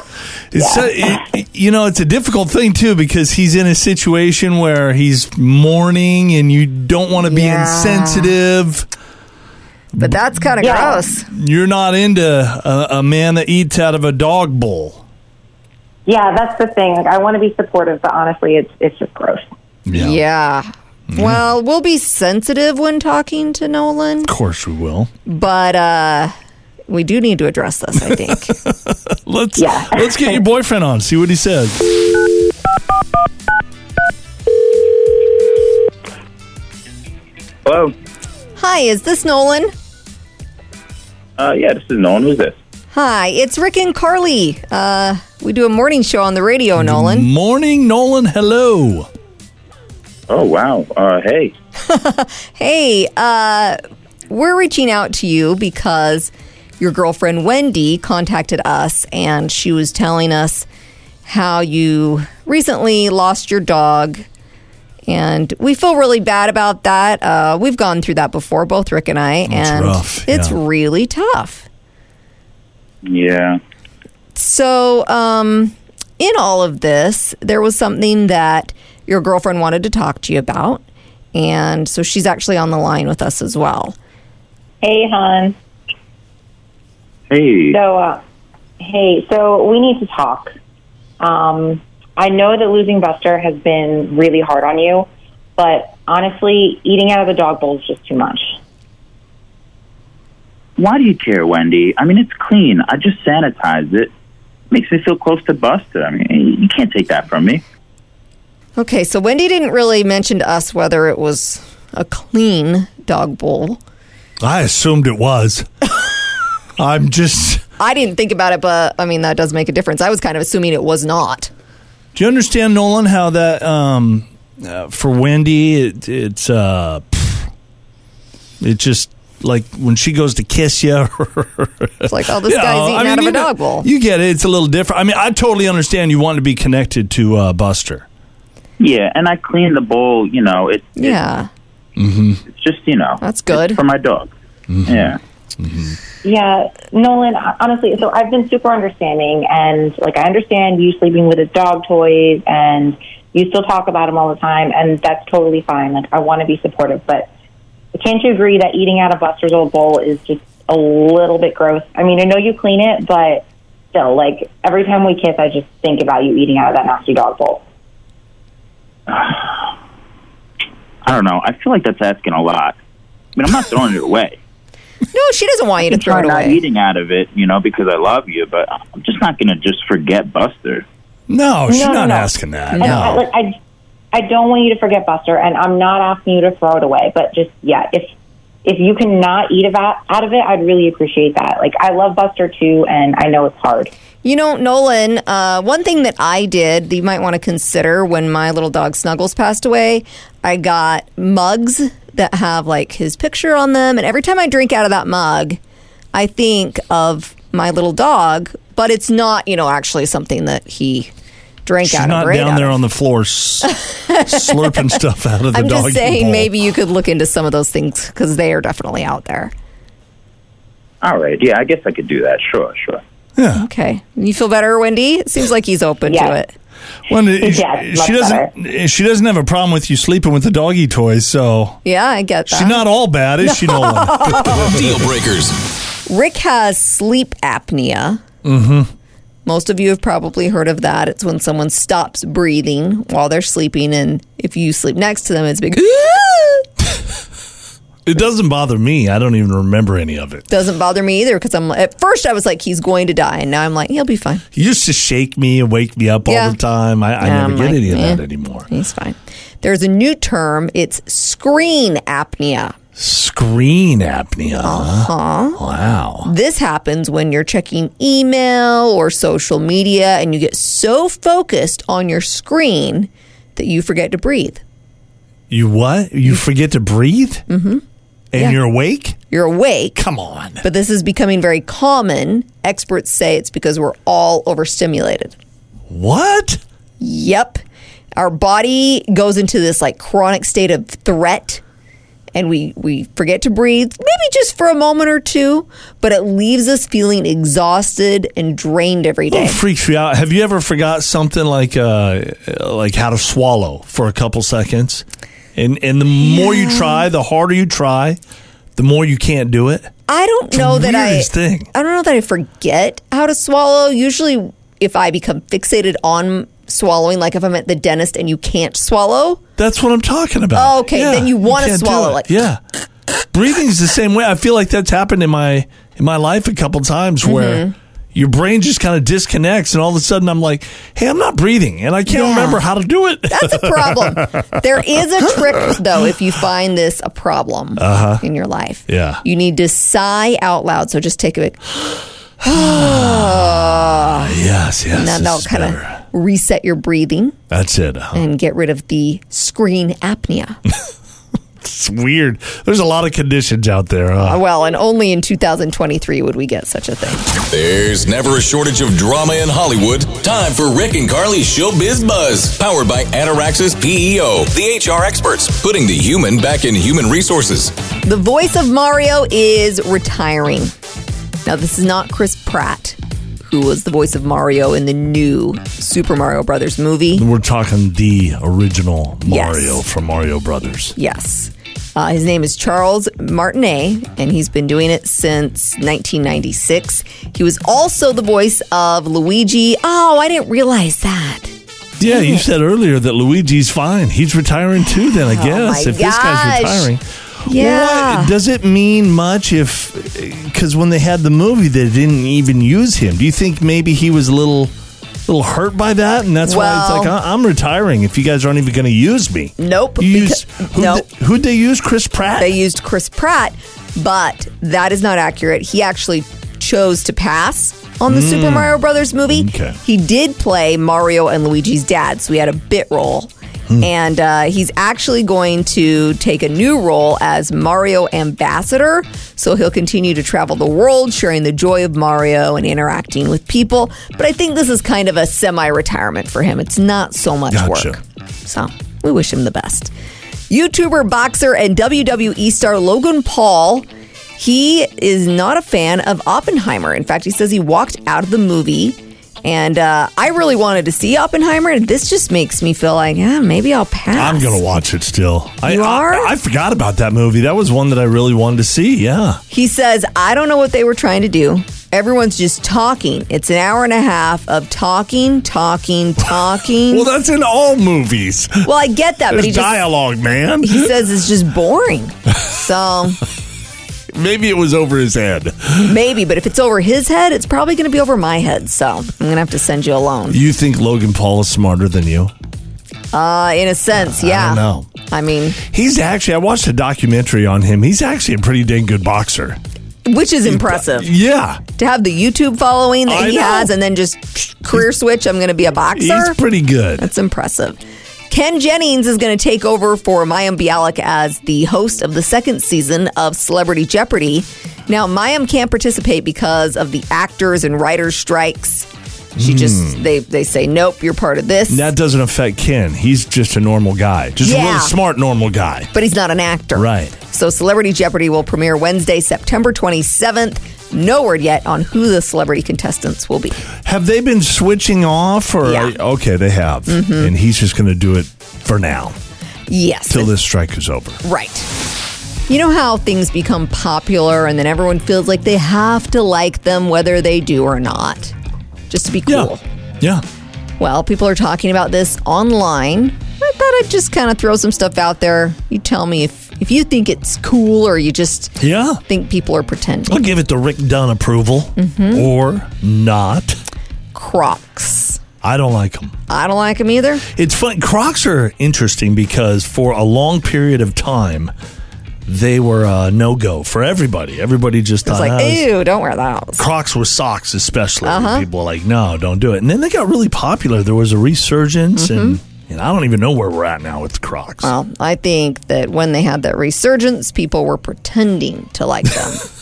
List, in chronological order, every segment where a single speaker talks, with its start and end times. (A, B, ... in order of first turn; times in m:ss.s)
0:00.5-0:08.9 A
0:00.6-0:01.2 B
0:07.2-0:08.4 C
0:09.9-0:10.4 A
0:10.0-0:11.3 C
0:10.6-0:11.0 B
0:11.3-0:15.0 A
0:16.1-0:19.4 B
0:19.9-0:20.2 A
0:20.0-0:24.3 C
0:21.1-0:21.4 A
0:24.2-0:25.1 A
0:25.3-0:26.3 C
0:26.9-0:28.6 C
0:28.0-0:32.0 A
0:29.6-0:30.4 B
0:37.6-0:37.9 D
0:38.6-0:39.7 C
0:41.4-0:42.6 D
0:42.9-0:47.3 C
0:46.8-0:49.1 A
0:50.3-0:51.5 D
0:51.8-0:53.8 C
0:54.3-1:00.7 C
1:01.3-1:04.2 C
1:05.1-1:11.7 C
1:09.5-1:10.6 A
1:13.0-1:13.6 D
1:14.4-1:20.8 C
1:21.3-1:24.0 C
1:24.8-1:25.6 B
1:27.3-1:27.8 D
1:27.7-1:28.2 B
1:28.8-1:30.6 B
1:31.2-1:38.6 B
1:40.8-1:44.1 D
1:44.7-1:47.6 D
1:48.8-1:53.8 C
1:54.4-1:55.7 A
1:56.8-1:57.6 A
1:57.8-2:01.5 C
2:02.2-2:07.5 A
2:08.6-2:18.1 A
2:12.1-2:13.9 C
2:18.8-2:21.2 D
2:21.0-2:21.5 C
2:22.0-2:22.4 A
2:22.5-2:24.3 D
2:23.2-2:23.8 C
2:24.7-2:26.0 A
2:24.9-2:25.2 D
2:26.2-2:37.3 B
2:37.9-2:47.6 B
2:49.1-2:49.7 D
2:51.0-2:52.8 D
2:53.4-2:54.4 D
2:55.1-2:56.6 C
2:56.0-2:56.4 B
2:56.0-3:00.9 D
3:01.3-3:03.3 A
3:01.7-3:03.6 B
3:02.7-3:03.1 C
3:04.1-3:08.1 B
3:08.6-3:13.9 B
3:14.2-3:25.6 C
3:26.1-3:31.1 C
3:31.7-3:32.8 C
3:31.8-3:36.5 A
3:33.7-3:35.0 C
3:35.5-3:39.5 C
3:41.0-3:43.0 D
3:43.4-3:43.7 A
3:43.6-3:46.5 C
3:46.1-3:46.4 B
3:47.1-3:51.8 A
3:47.4-3:48.5 B
3:51.8-3:52.9 C
3:52.5-3:55.0 A
3:53.4-3:54.7 C
3:54.4-3:55.5 E
3:56.1-3:58.2 C
3:58.4-3:58.9 A
3:59.5-4:06.7 C
4:08.1-4:10.5 A
4:10.5-4:14.4 C
4:14.5-4:18.7 A
4:16.3-4:16.6 C
4:17.2-4:22.8 C
4:23.0-4:26.3 A
4:24.6-4:25.6 C
4:26.2-4:34.6 C
4:35.5-4:37.5 A
4:37.5-4:37.8 C
4:38.3-4:39.2 A
4:39.3-4:40.0 C
4:40.0-4:40.6 A
4:40.6-4:45.4 C
4:45.9-4:46.6 A
4:47.0-4:47.6 C
4:48.2-4:51.6 C
4:52.4-4:59.6 C
4:59.3-5:05.0 A
5:05.6-5:08.2 A
5:06.2-5:07.0 C
5:08.8-5:09.9 A
5:10.1-5:19.4 C
5:10.5-5:11.7 A
5:19.6-5:22.6 A
5:20.6-5:22.4 C
5:23.3-5:35.8 A
5:27.2-5:27.7 C
5:32.1-5:32.6 C
5:33.3-5:44.3 C
5:37.8-5:38.2 A
5:38.9-5:39.2 A
5:42.4-5:46.0 A
5:44.9-5:47.4 C
5:47.5-5:48.2 A
5:48.1-5:50.6 C
5:51.6-5:54.4 A
5:54.2-5:57.3 C
5:57.5-6:07.7 E
6:08.0-6:10.7 C
6:11.5-6:17.2 C
6:17.2-6:21.0 A
6:19.3-6:19.8 C
6:21.0-6:31.5 C
6:32.0-6:44.7 A
6:32.0-6:32.4 C
6:34.9-6:36.9 C
6:37.4-6:38.4 C
6:45.3-6:52.6 A
6:46.4-6:47.1 C
6:49.6-6:51.1 C
6:52.4-7:19.9 C
6:58.1-6:59.8 A
7:17.5-7:18.0 A
7:20.5-7:34.6 C
7:34.1-7:39.4 A
7:35.7-7:36.3 C
7:39.5-7:47.1 C
7:46.9-7:48.7 A
7:48.6-7:49.8 C
7:49.3-7:50.9 A
7:50.6-7:53.2 C
7:54.1-7:56.0 A
7:55.8-8:00.4 C
8:00.3-8:02.3 A
8:03.1-8:05.6 C
8:04.0-8:04.9 A
8:05.6-8:09.6 A
8:10.1-8:11.1 C
8:10.5-8:11.6 A
8:11.8-8:16.4 C
8:13.1-8:13.7 A
8:15.9-8:17.1 A
8:17.0-8:31.9 C
8:29.4-8:30.0 A
8:31.7-8:35.9 A
8:34.4-8:35.0 C
8:35.9-8:43.6 C
8:36.8-8:37.2 A
8:43.8-8:49.2 A
8:45.6-8:46.0 C
8:46.9-8:47.3 C
8:49.7-8:50.3 C
8:50.1-8:51.2 A
8:51.2-8:51.7 C
8:52.5-8:58.3 C
8:58.9-8:59.6 C
8:59.3-9:00.2 A
9:00.8-9:10.3 C
9:08.6-9:09.0 A
9:10.1-9:13.6 A
9:11.8-9:12.3 C
9:14.1-9:15.2 C
9:15.4-9:16.2 A
9:16.3-9:17.2 C
9:17.3-9:21.5 A
9:22.3-9:25.7 A
9:25.0-9:26.7 C
9:26.6-9:34.7 A
9:28.0-9:28.5 C
9:32.0-9:32.4 C
9:34.6-9:39.5 C